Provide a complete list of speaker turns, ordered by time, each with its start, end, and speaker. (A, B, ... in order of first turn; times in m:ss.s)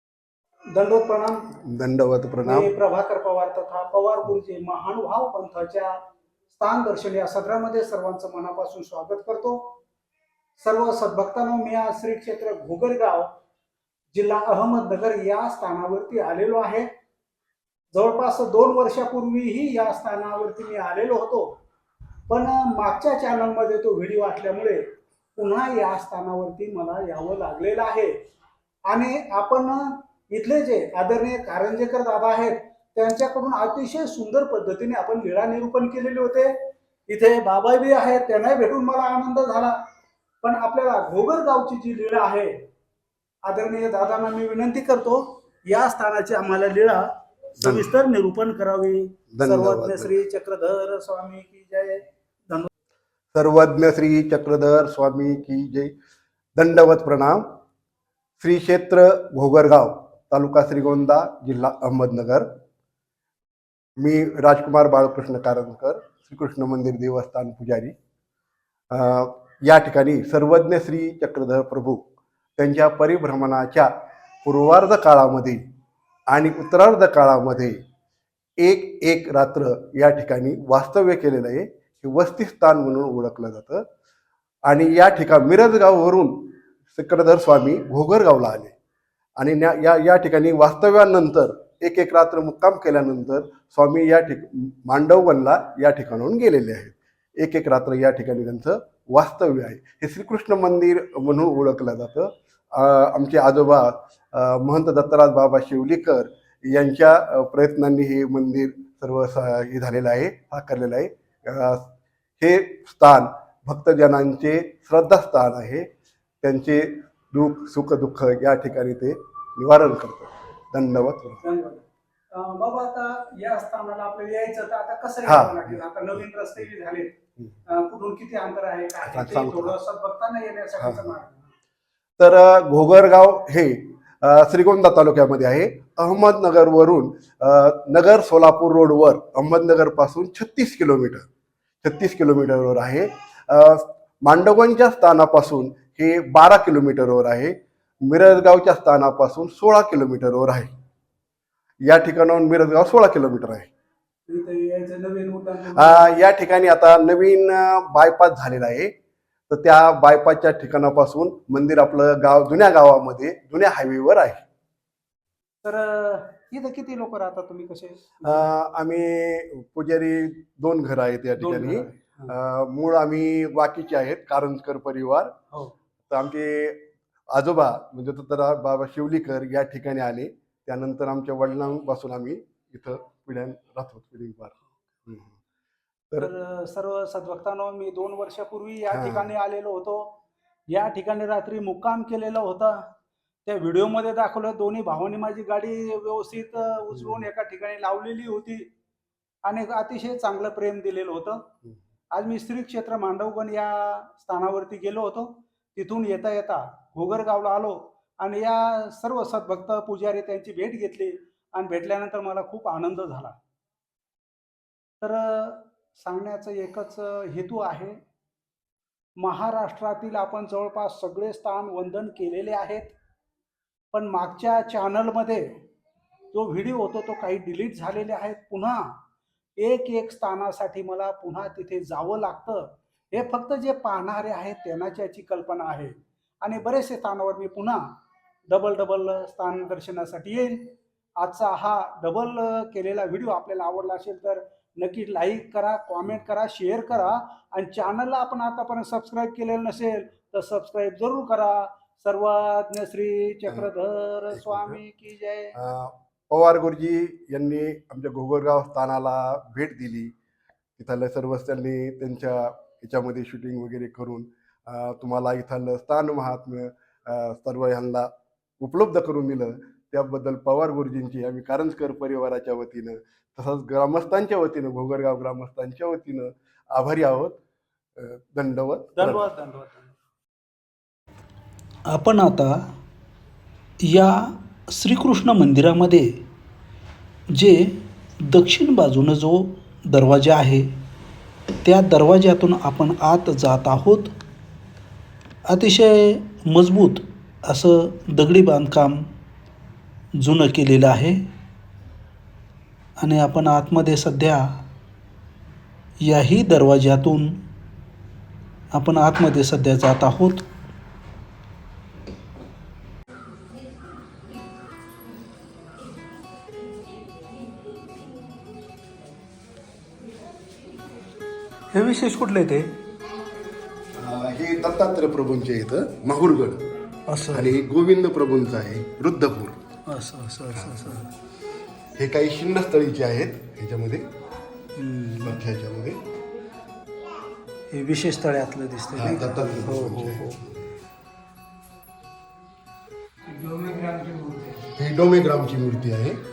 0:00.7-0:01.5 A
0:01.6-0:02.7 B
0:02.4-0:06.0 A
0:06.5-0:09.8 A
0:10.6-0:13.3 A
0:14.1-0:16.9 A
0:17.9-0:21.5 A
0:22.3-0:24.8 A
0:25.4-0:28.2 A
0:28.9-0:36.5 A
0:37.1-0:39.8 A
0:40.4-0:42.5 A
0:43.4-0:52.7 A
0:47.6-0:47.8 B
0:49.3-0:50.1 B
0:53.3-0:55.9 B
0:56.6-0:57.5 B
0:58.4-1:02.5 B
1:04.0-1:07.9 B
1:08.9-1:12.0 B
1:12.6-1:13.9 B
1:14.4-1:15.6 B
1:16.3-1:17.8 B
1:18.6-1:23.8 B
1:24.7-1:28.7 B
1:29.4-1:51.9 B
1:52.4-1:55.9 B
1:56.4-2:01.4 B
2:01.4-2:07.1 A
2:05.3-2:06.2 B
2:07.7-2:11.5 A
2:09.0-2:09.8 B
2:10.8-2:11.1 B
2:12.2-2:21.3 B
2:21.8-2:30.7 B
2:31.8-2:33.7 B
2:34.3-2:36.2 A
2:35.7-2:38.9 B
2:39.5-2:44.4 B
2:45.6-2:48.5 A
2:48.2-2:55.3 B
2:51.4-2:52.3 A
2:56.1-3:05.3 B
3:06.2-3:12.9 A
3:08.9-3:09.3 B
3:13.4-3:18.7 A
3:16.9-3:17.2 B
3:19.4-3:21.4 A
3:22.1-3:33.4 A
3:35.0-3:38.0 A
3:39.2-3:42.9 A
3:43.9-3:45.5 A
3:46.3-3:49.0 A
3:49.6-3:57.8 A
3:58.5-4:15.6 A
4:14.3-4:14.8 B
4:15.6-4:20.1 B
4:20.8-4:37.4 B
4:38.0-4:39.2 B
4:39.0-4:39.9 A
4:41.9-4:42.7 C
4:43.8-4:46.2 C
4:47.3-4:50.7 C
4:51.6-4:54.2 C
4:55.5-4:59.1 C
5:00.2-5:01.3 C
5:03.0-5:04.6 C
5:06.0-5:07.4 C
5:08.7-5:10.4 C
5:21.7-5:22.8 C
5:24.0-5:26.6 B
5:27.1-5:27.6 C
5:27.3-5:29.6 B
5:29.9-5:31.1 C
5:30.6-5:30.8 B
5:32.0-5:34.1 B
5:34.8-5:35.4 C
5:35.2-5:36.0 B
5:37.7-5:40.4 C
5:38.9-5:40.5 B
5:43.4-5:44.6 A
5:44.6-5:46.2 B